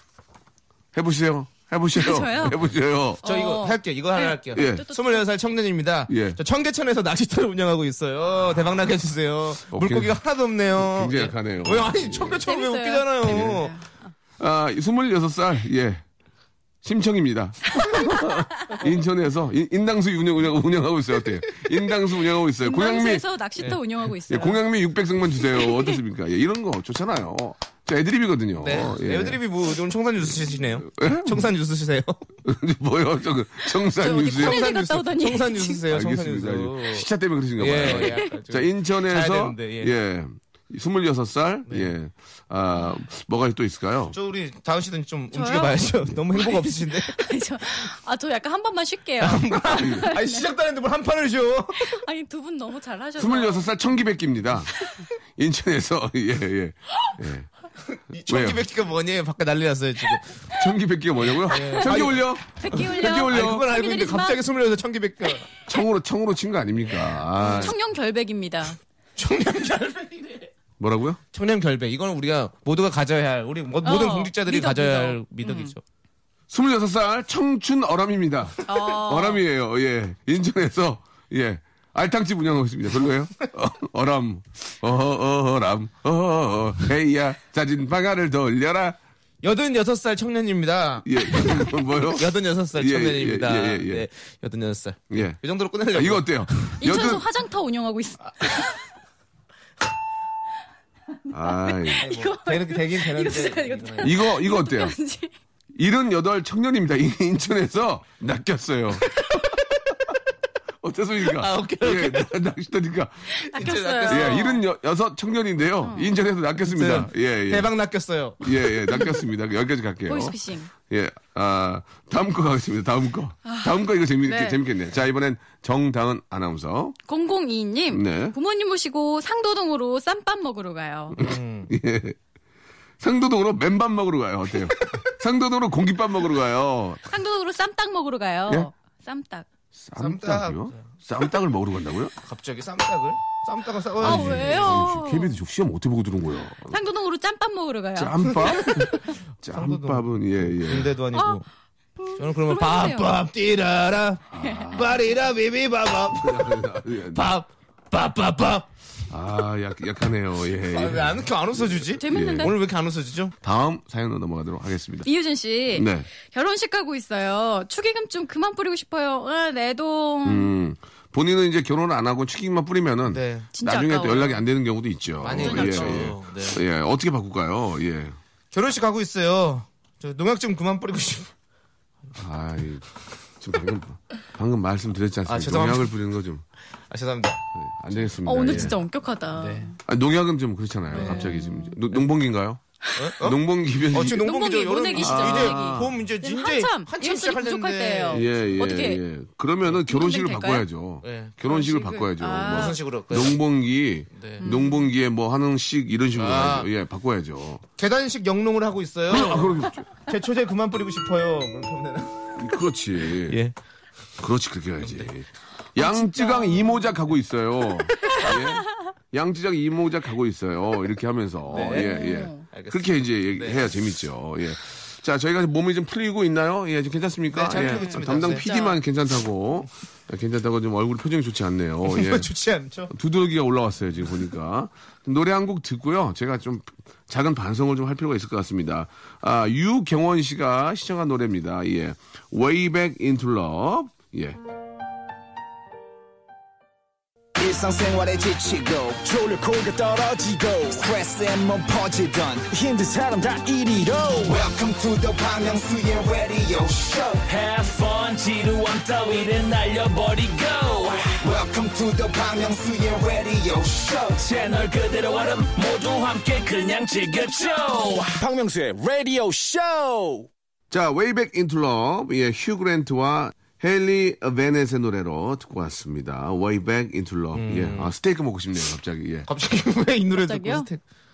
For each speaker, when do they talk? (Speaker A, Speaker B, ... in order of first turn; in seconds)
Speaker A: 0.9-3.2, 4.5-4.9, 6.1-6.4, 9.7-10.2, 10.8-12.4, 13.2-13.6, 14.4-16.0, 16.8-23.2, 24.3-29.4, 30.8-31.5, 32.4-34.7, 35.9-44.1, 49.6-50.1, 53.2-57.5, 58.3-58.6, 60.5-63.7, 65.7-67.8, 70.8-71.2, 76.5-89.0, 91.0-94.0, 95.1-95.4, 95.9-97.2, 101.3-102.1, 104.0-104.9, 105.7-109.2, 110.8-113.4, 114.1-117.7, 118.4-127.0, 127.9-128.3, 131.2-132.2, 133.0-137.0, 139.7-142.1, 144.0-146.8, 147.9-150.9, 154.3-155.0, 156.2-157.3, 159.1-161.3, 162.0-162.5, 163.4-165.1, 165.7-166.1, 170.2-178.2, 182.2-182.9, 183.4-186.4, 187.5-188.8, 189.8-192.6, 193.2-194.3, 194.9-196.0, 198.1-207.6, 209.1-209.9, 212.4-213.4, 214.2-232.3, 232.9-244.4, 270.7-279.3
Speaker B: 1.9-2.7, 3.2-5.2, 12.4-13.8, 22.6-24.6, 25.5-26.0, 33.9-35.8, 37.8-38.3, 45.3-50.5, 51.8-53.7, 61.8-64.4, 67.4-68.8, 73.8-75.7, 78.7-79.4, 96.8-98.8, 101.6-105.3, 113.4-114.6, 115.8-116.1, 120.1-120.7, 123.4-124.6, 127.1-131.2, 137.1-139.4, 144.0-145.3, 146.7-148.8, 151.1-151.4, 152.0-153.2, 154.4-154.8, 162.0-162.6, 165.0-170.5, 173.5-174.4, 175.3-176.1, 188.2-189.8, 190.9-191.8, 194.0-199.0, 199.8-200.7, 201.4-202.8, 204.4-204.9, 215.8-216.9, 218.0-218.3, 221.5-222.4, 227.5-228.8, 280.1-280.7
Speaker C: 3.2-13.7, 28.6-32.3, 34.2-39.9, 41.7-41.9, 44.1-47.2, 49.2-52.0, 57.9-60.4, 61.5-65.5, 69.2-70.5, 71.3-75.8, 89.4-96.8, 102.0-104.1, 111.2-112.3, 113.4-114.5, 116.6-119.1, 131.2-131.7, 140.0-140.8, 142.2-144.8, 148.6-151.4, 152.2-158.7, 160.6-163.3, 173.1-173.5, 175.2-176.6, 178.5-181.3, 185.2-185.9, 186.9-187.4, 188.5-188.7, 189.3-189.7, 190.9-191.3, 192.9-193.4, 193.9-198.6, 201.0-201.4, 202.4-203.4, 204.1-204.4, 206.1-206.7, 207.8-212.3, 213.2-213.5, 214.8-215.1, 221.5-223.7, 227.3-228.5, 231.8-232.9, 277.3-277.9, 279.3-280.8
Speaker D: 247.4-257.2, 261.2-264.3, 268.1-270.3
Speaker E: 257.2-261.2, 264.2-268.2